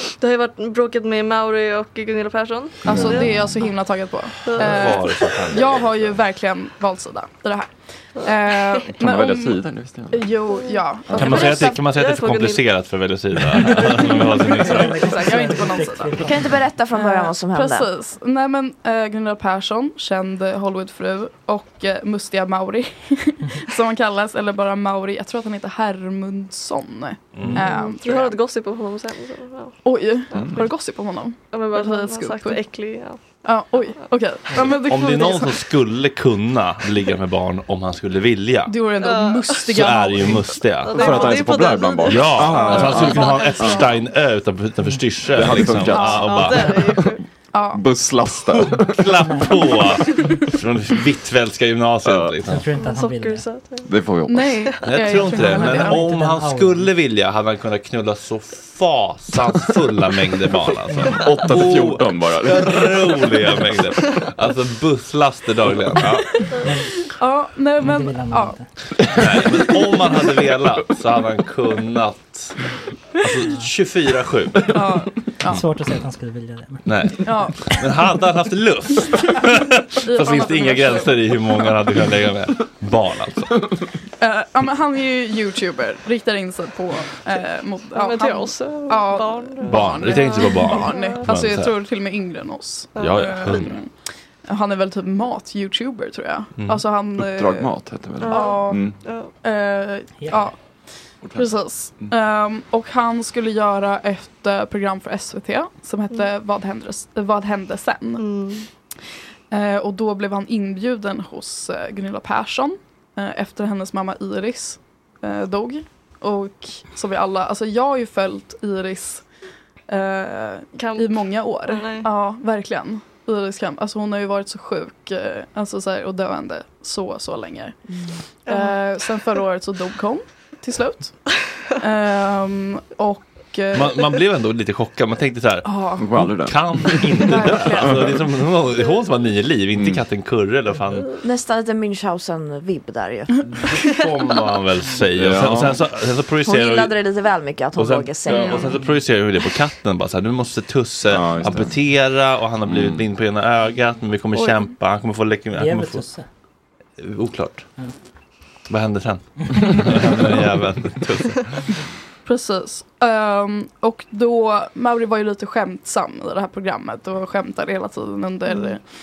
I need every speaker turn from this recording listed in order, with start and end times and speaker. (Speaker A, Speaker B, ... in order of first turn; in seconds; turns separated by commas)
Speaker A: 0.2-3.6, Speaker B: 2.9-3.3, Speaker C: 2.9-11.8, Speaker A: 4.4-5.6, Speaker D: 4.6-5.8, Speaker B: 9.0-10.3, Speaker A: 10.6-12.6, Speaker B: 11.1-11.5, Speaker D: 11.1-15.2, Speaker E: 13.7-16.6, Speaker C: 14.5-16.2, Speaker F: 16.1-17.9, Speaker C: 16.9-28.4, Speaker D: 27.3-27.6, Speaker A: 27.6-30.7, Speaker C: 29.8-32.6, Speaker A: 31.5-33.2, Speaker C: 33.4-35.6, Speaker D: 34.7-38.8, Speaker C: 38.7-42.0, Speaker A: 39.0-39.6, Speaker D: 39.5-41.1, Speaker A: 40.8-43.7, Speaker B: 40.9-43.9, Speaker D: 42.1-46.7, Speaker C: 42.5-43.9, Speaker B: 45.3-47.0, Speaker C: 45.9-47.8, Speaker A: 46.1-47.2, Speaker B: 47.7-49.1, Speaker D: 48.7-52.6, Speaker E: 49.2-49.5, Speaker B: 52.0-52.3, Speaker E: 52.5-53.5, Speaker A: 52.7-53.9, Speaker B: 53.9-54.5, Speaker C: 54.3-56.0, Speaker D: 54.8-66.4, Speaker E: 55.1-56.9, Speaker B: 61.1-63.3, Speaker E: 66.6-67.1, Speaker C: 67.0-68.6, Speaker E: 67.8-68.7, Speaker D: 69.1-72.6, Speaker D: 73.2-74.8, Speaker C: 74.7-75.6, Speaker E: 75.5-76.9, Speaker D: 76.9-83.7, Speaker C: 77.2-77.8, Speaker C: 80.0-82.0, Speaker C: 84.2-93.9, Speaker A: 87.9-91.3, Speaker D: 89.6-91.7, Speaker A: 92.9-93.5, Speaker D: 93.0-93.8, Speaker C: 94.4-97.7, Speaker D: 96.6-96.8, Speaker B: 97.2-99.0, Speaker A: 98.2-99.3, Speaker C: 98.2-98.8, Speaker C: 99.3-100.6, Speaker E: 100.2-100.4, Speaker B: 101.2-102.1, Speaker C: 101.3-108.3, Speaker A: 108.2-108.7, Speaker C: 109.5-119.3, Speaker C: 119.9-127.8, Speaker A: 120.8-121.1, Speaker A: 121.7-122.1, Speaker A: 128.4-128.8, Speaker C: 128.4-131.3, Speaker C: 131.8-134.1, Speaker D: 133.7-141.1, Speaker C: 135.6-136.2, Speaker B: 136.0-138.2, Speaker C: 137.2-138.1, Speaker B: 139.8-140.0, Speaker F: 141.2-143.4, Speaker D: 143.6-146.9, Speaker B: 145.1-145.8, Speaker F: 146.4-148.8, Speaker D: 147.8-156.0, Speaker B: 148.3-148.6, Speaker B: 151.1-151.8, Speaker B: 152.7-153.0, Speaker E: 155.6-156.3, Speaker D: 157.0-157.7, Speaker D: 158.7-161.7, Speaker C: 162.3-168.9